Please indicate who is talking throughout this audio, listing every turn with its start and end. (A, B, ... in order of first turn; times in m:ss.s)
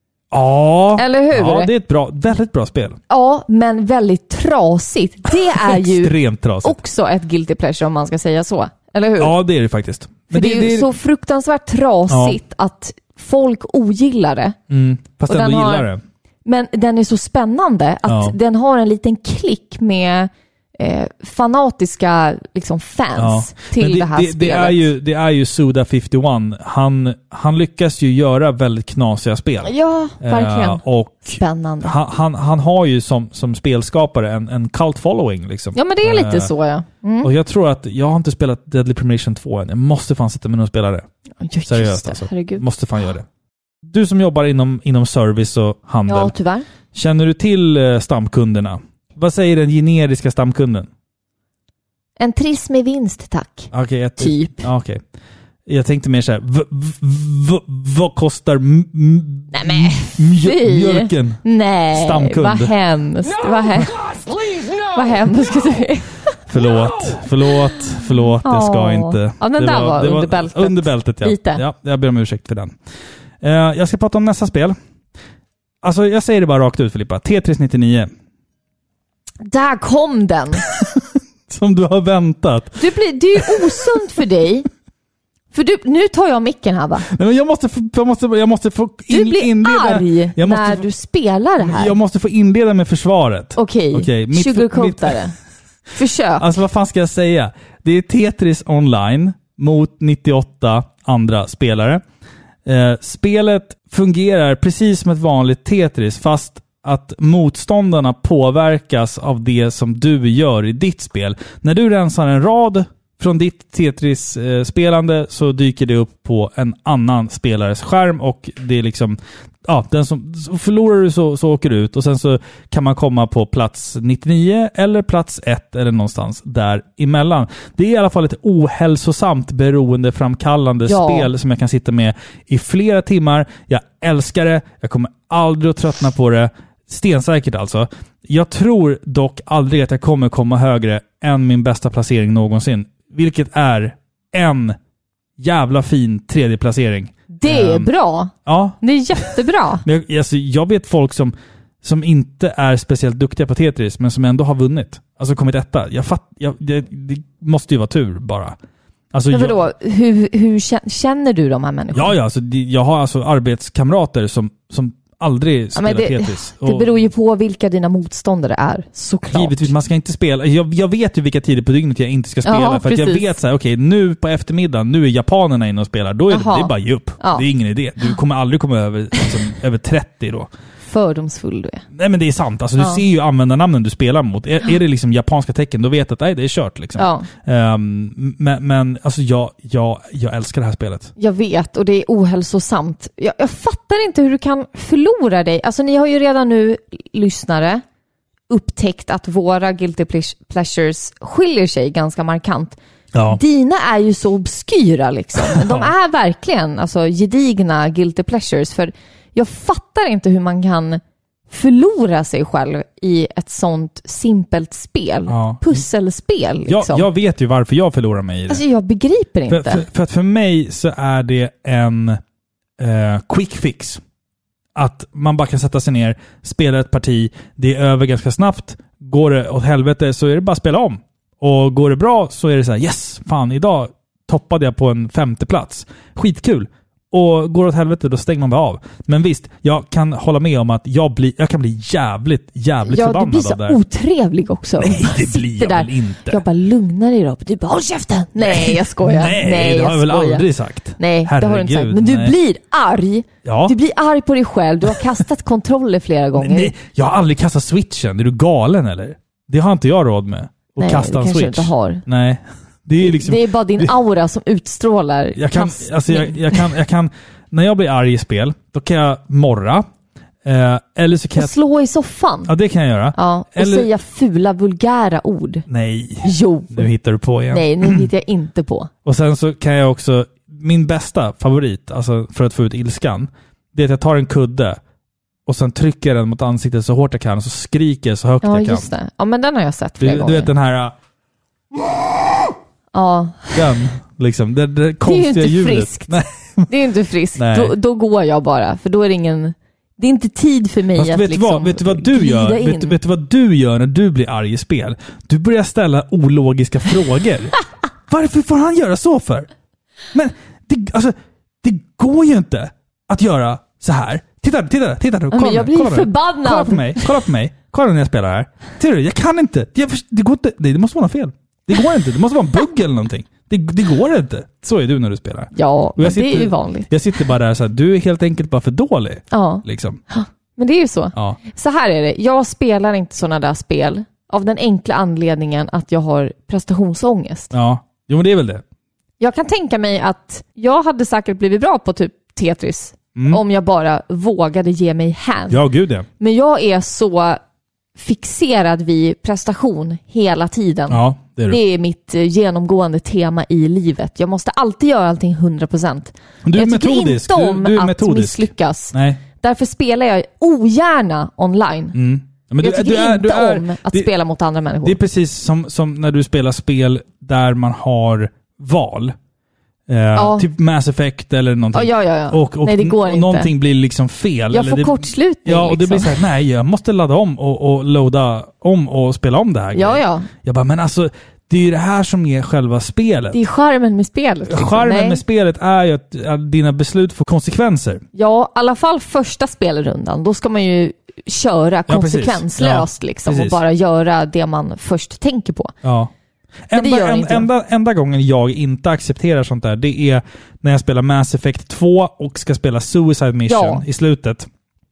0:00.3-0:03.0 A
0:01.0-0:01.7 B
0:03.1-0:09.4 B
0:05.6-0:06.8 A
0:09.2-0:10.9 A
0:10.3-0:14.6 B
0:12.1-0:12.4 A
0:14.7-0:16.0 A
0:15.3-0:15.9 B
0:16.4-0:24.9 B
0:18.1-0:18.4 A
0:23.2-0:36.5 A
0:29.6-0:31.9 B
0:35.8-0:37.3 B
0:37.2-0:41.1 A
0:41.4-0:42.6 B
0:41.7-0:43.3 A
0:43.9-0:46.3 A
0:46.1-0:46.7 B
0:46.9-0:50.9 A
0:52.2-0:54.7 B
0:53.7-0:55.0 A
0:55.7-1:02.7 A
0:59.5-1:03.9 B
1:03.2-1:05.8 C
1:05.0-1:06.4 B
1:06.5-1:12.8 A
1:06.6-1:07.3 C
1:08.4-1:11.6 B
1:13.4-1:14.8 A
1:15.8-1:18.1 A
1:19.4-1:20.7 B
1:20.7-1:22.8 A
1:22.8-1:24.7 B
1:23.4-1:23.7 A
1:25.5-1:27.1 B
1:27.1-1:30.8 A
1:29.1-1:32.0 B
1:31.6-1:35.2 A
1:33.6-1:35.4 B
1:36.0-1:36.5 B
1:36.4-1:42.0 A
1:42.7-2:24.8 A
2:10.9-2:11.3 B
2:25.4-2:27.9 A
2:27.4-2:29.8 B
2:28.5-2:29.3 A
2:29.8-2:38.6 A
2:39.1-2:39.6 A
2:39.3-2:42.2 B
2:41.9-2:46.9 A
2:45.8-2:49.7 B
2:49.3-3:00.5 A
2:52.4-2:53.3 B
2:56.3-2:57.4 B
3:00.9-3:01.8 B
3:01.9-3:11.1 A
3:07.0-3:07.3 B
3:11.2-3:17.8 B
3:18.5-3:37.1 B
3:23.1-3:23.4 A
3:25.4-3:25.9 A
3:35.3-3:35.8 A
3:36.7-3:38.6 A
3:38.5-3:39.8 B
3:39.5-3:42.2 A
3:42.8-3:44.0 A
3:44.8-4:03.8 A
4:02.8-4:10.4 B
4:04.8-4:06.4 A
4:08.4-4:12.4 A
4:11.0-4:16.7 B
4:13.4-4:13.8 A
4:16.4-4:23.9 A
4:20.8-4:22.0 B
4:23.0-4:26.7 B
4:25.4-4:29.8 A
4:30.4-4:31.5 A
4:31.4-4:32.5 B
4:32.5-4:33.9 A
4:33.2-4:35.7 B
4:35.7-4:38.1 A
4:36.2-4:36.9 B
4:37.5-4:38.9 B
4:39.0-4:44.8 A
4:45.5-4:48.9 A
4:48.4-4:50.5 B
4:50.0-4:51.0 A
4:52.9-4:53.6 B
4:53.5-4:56.7 A
4:55.0-5:03.0 B
4:57.4-4:57.7 A
5:01.0-5:07.6 A
5:08.1-5:09.5 A
5:10.1-5:30.0 A
5:15.3-5:17.2 B
5:25.5-5:26.9 B
5:29.3-5:37.5 B
5:37.5-5:38.6 A
5:39.2-5:45.6 B
5:43.2-5:43.4 A
5:45.5-5:46.1 A
5:46.2-5:47.4 B
5:48.0-6:02.0 B
5:50.9-5:51.6 A
5:56.4-5:59.2 A
6:01.9-6:04.1 A
6:02.6-6:05.0 B
6:04.8-6:09.2 A
6:09.9-6:23.4 A
6:10.2-6:10.5 B
6:11.7-6:13.5 B
6:14.5-6:16.2 B
6:19.7-6:20.3 B
6:23.3-6:25.2 B
6:24.5-6:28.0 A
6:28.2-6:35.7 B
6:31.9-6:33.6 A
6:35.8-6:36.1 A
6:36.7-6:44.5 A
6:36.7-6:37.5 B
6:43.5-6:43.8 B